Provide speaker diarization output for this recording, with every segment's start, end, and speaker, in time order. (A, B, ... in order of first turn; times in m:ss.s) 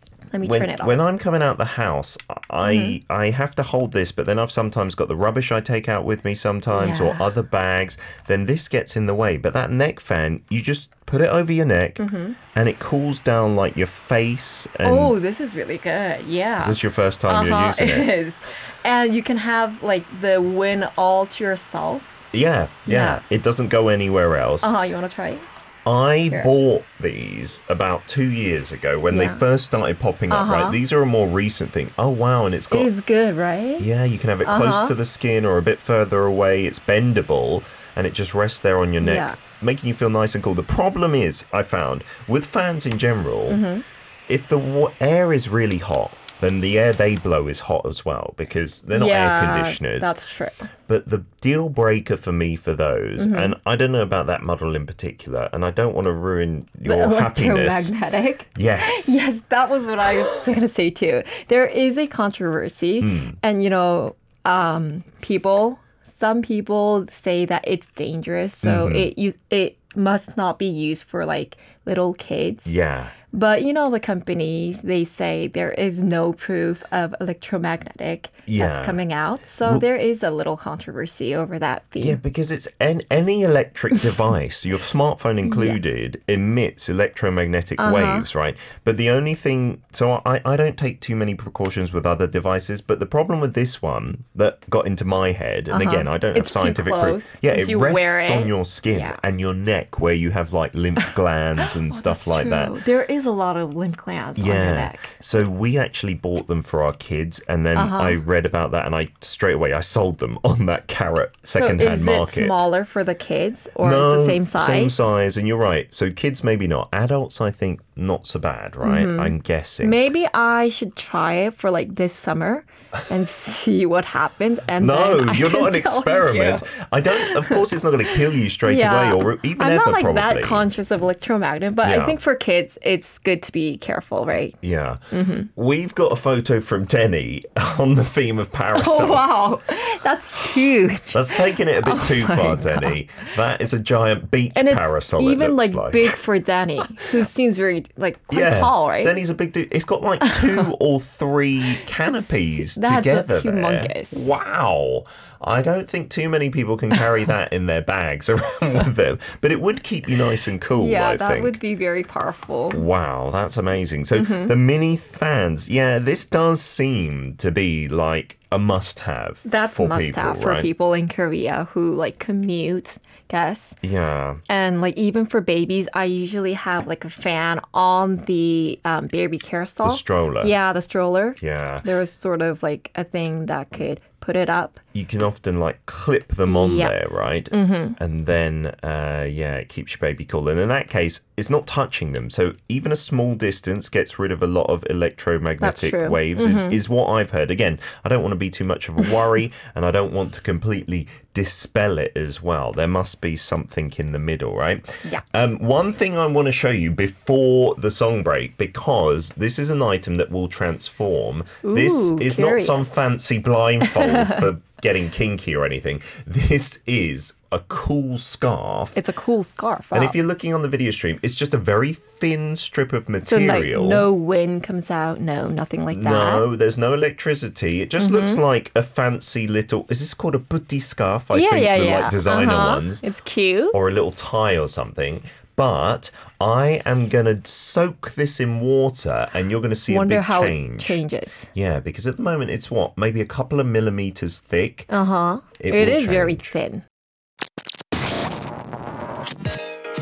0:00.3-0:01.0 A
0:00.4-0:15.2 B
0:02.6-0:03.0 A
0:06.7-0:07.2 A
0:12.0-0:12.4 A
0:14.8-0:22.2 A
0:16.6-0:18.1 B
0:22.3-0:24.7 B
0:22.8-0:23.2 A
0:24.6-0:25.4 A
0:25.8-0:32.9 B
0:29.1-0:29.4 A
0:30.3-0:30.8 A
0:32.7-0:33.9 A
0:33.8-0:43.6 B
0:34.4-0:34.9 A
0:39.0-0:39.4 A
0:43.5-0:43.8 A
0:44.3-0:50.2 B
0:48.9-0:50.7 A
0:50.9-0:57.9 B
0:53.2-0:53.5 A
0:56.8-1:12.8 A
0:58.5-0:59.2 B
1:03.0-1:03.4 B
1:08.6-1:09.1 B
1:12.6-1:13.1 B
1:13.3-1:22.2 A
1:18.5-1:19.0 B
1:22.0-1:42.8 B
1:25.4-1:25.8 A
1:27.8-1:28.3 A
1:35.7-1:39.2 A
1:41.6-1:45.2 A
1:44.4-1:52.6 B
1:47.7-1:48.2 A
1:51.5-1:55.1 A
1:53.8-2:00.0 B
1:58.8-2:14.6 A
2:04.8-2:10.6 B
2:11.8-2:12.2 B
2:14.6-2:15.0 B
2:15.1-2:15.5 A
2:15.5-2:19.4 B
2:18.7-2:22.9 A
2:21.1-2:26.1 B
2:24.5-2:29.2 A
2:28.3-2:41.5 B
2:30.2-2:30.7 A
2:32.7-2:34.2 A
2:40.7-2:42.8 A
2:42.7-2:50.7 B
2:44.1-2:44.5 A
2:49.4-2:53.8 A
2:53.8-2:54.4 B
2:54.5-3:04.8 A
2:59.8-3:00.5 B
3:01.4-3:01.8 B
3:04.9-3:39.0 B
3:06.4-3:08.0 A
3:15.6-3:16.8 A
3:31.6-3:33.1 A
3:33.8-3:34.4 A
3:38.9-3:40.2 A
3:39.9-3:44.1 B
3:43.2-3:46.5 A
3:45.9-3:53.0 B
3:48.0-3:48.4 A
3:51.3-3:53.8 A
3:53.7-4:01.0 B
3:59.9-4:01.5 A
4:01.5-4:04.9 B
4:04.9-4:06.8 A
4:05.6-4:06.5 B